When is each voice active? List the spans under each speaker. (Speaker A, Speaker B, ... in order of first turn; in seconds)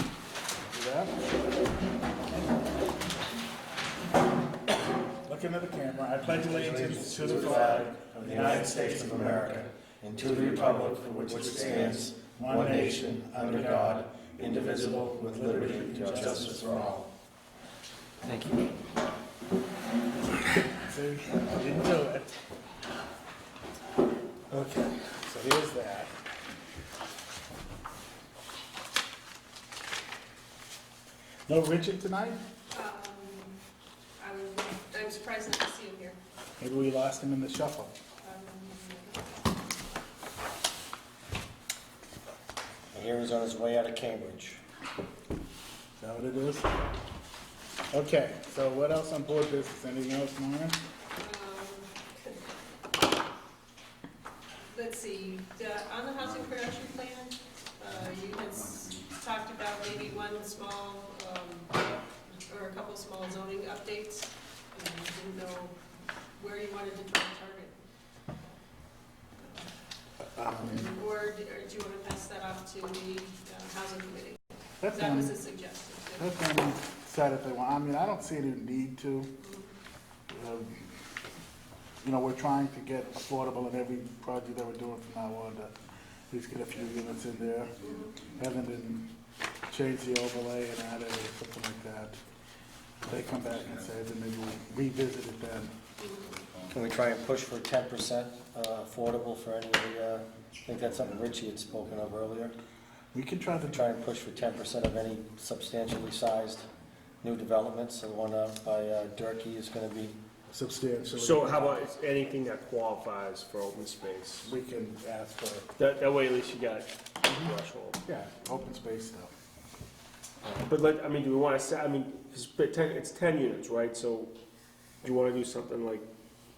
Speaker A: 0.7-1.2, 5.2-9.6, 11.7-14.1, 14.8-16.6, 20.8-22.3, 24.5-26.1, 31.5-32.4, 36.6-37.9, 46.0-46.8, 47.9-50.8, 70.4-70.8, 74.8-75.3, 76.2-79.3, 80.3-80.8, 82.0-85.7, 86.3-89.1, 89.7-92.2, 93.0-95.7, 103.1-103.8, 110.5-111.9, 114.4-115.7, 118.0-119.3
Speaker B: 6.4-17.1, 18.2-18.7, 42.9-44.6, 96.7-102.5, 103.7-106.7, 107.2-110.2
Speaker C: 32.7-33.5, 34.2-36.2, 38.2-39.5, 51.1-52.4, 54.7-61.8, 62.5-65.8, 66.3-67.7, 70.5-76.3, 79.4-79.7, 87.8-88.1, 96.0-96.3
Speaker D: 111.2-114.5, 115.8-118.0, 120.5-124.3, 125.0-126.1